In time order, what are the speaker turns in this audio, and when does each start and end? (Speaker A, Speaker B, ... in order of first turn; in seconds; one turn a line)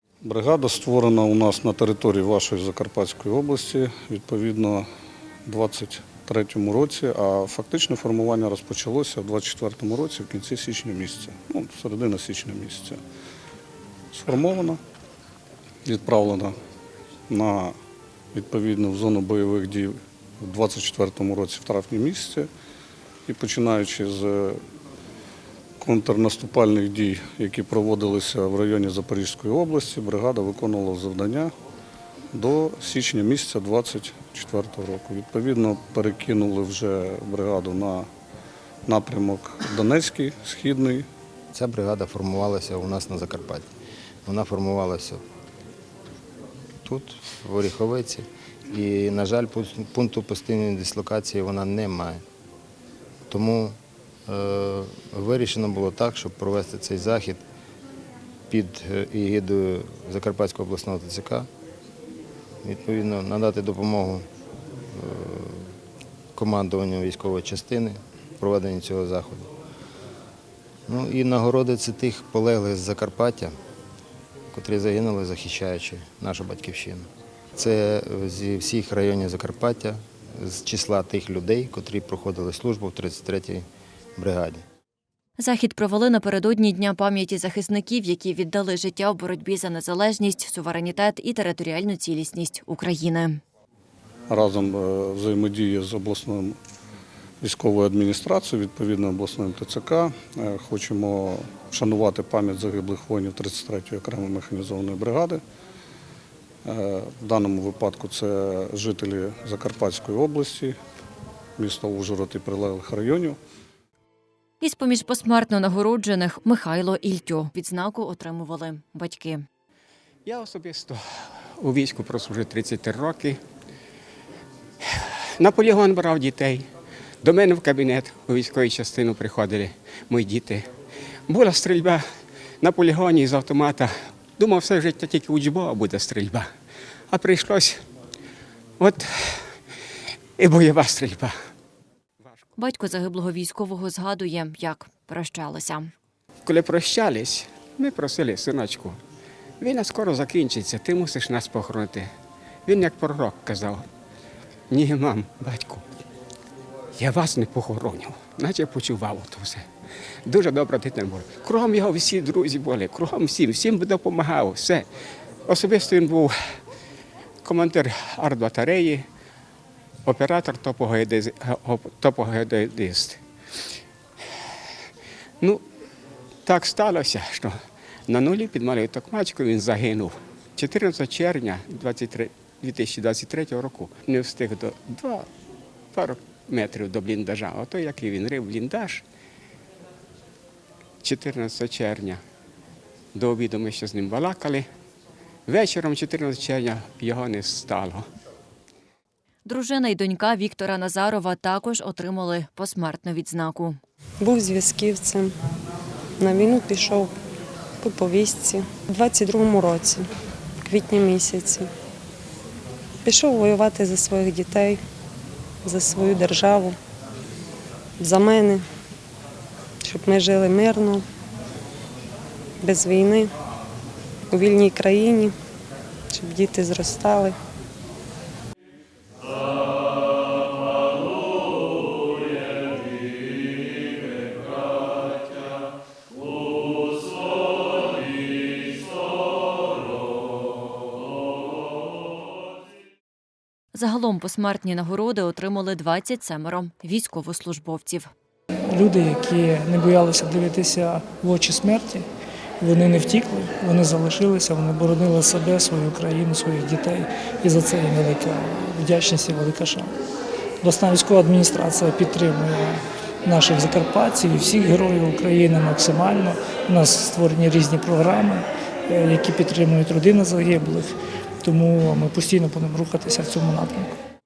Speaker A: 0.2-4.9
Speaker A: 5.5-13.0
Speaker A: 14.1-14.8
Speaker A: 15.8-16.6
Speaker A: 17.3-17.8
Speaker A: 18.3-22.5
Speaker A: 23.3-24.6
Speaker A: 25.8-31.5
Speaker A: 32.3-38.1
Speaker A: 38.9-41.0
Speaker B: 41.5-43.7
Speaker B: 44.2-45.2
Speaker B: 46.8-52.2
Speaker B: 53.3-57.4
Speaker B: 58.5-61.5
Speaker B: 62.6-64.2
Speaker B: 64.9-65.7
Speaker B: 66.3-69.5
Speaker B: 70.9-73.5
Speaker B: 74.5-77.0
Speaker B: 77.6-83.6
Speaker B: 84.2-84.6
Speaker C: 85.4-93.4
Speaker A: 94.3-96.6
Speaker A: 97.4-105.4
Speaker A: 106.6-110.8
Speaker A: 111.6-113.4
Speaker C: 114.6-119.4
Speaker D: 120.2-121.0
Speaker D: 121.6-123.4
Speaker D: 124.8-126.7
Speaker D: 127.2-130.7
Speaker D: 131.3-132.0
Speaker D: 132.6-136.5
Speaker D: 137.1-137.8
Speaker D: 138.8-139.5
Speaker D: 140.4-141.3
Speaker C: 142.6-145.9
Speaker D: 146.4-149.0
Speaker D: 149.6-152.1
Speaker D: 152.7-153.8
Speaker D: 154.7-155.8
Speaker D: 157.0-159.6
Speaker D: 160.2-164.9
Speaker D: 165.5-166.3
Speaker D: 167.4-169.1
Speaker D: 170.1-173.2
Speaker D: 176.4-177.5
Speaker D: 178.1-185.3
Speaker D: 185.9-189.0
Speaker D: 191.0-192.2
Speaker D: 193.1-194.7
Speaker D: 195.5-198.0
Speaker C: 199.4-203.8
Speaker E: 204.2-205.3
Speaker E: 206.2-207.1
Speaker E: 207.8-210.1
Speaker E: 210.6-211.7
Speaker E: 213.0-214.8
Speaker E: 215.6-216.8
Speaker E: 218.0-218.6
Speaker E: 219.8-221.0
Speaker E: 222.6-223.3
Speaker E: 224.3-225.3
Speaker E: 226.1-227.4
Speaker C: 243.7-248.1
Speaker F: 248.7-252.1
Speaker F: 252.6-259.9
Speaker F: 260.6-273.9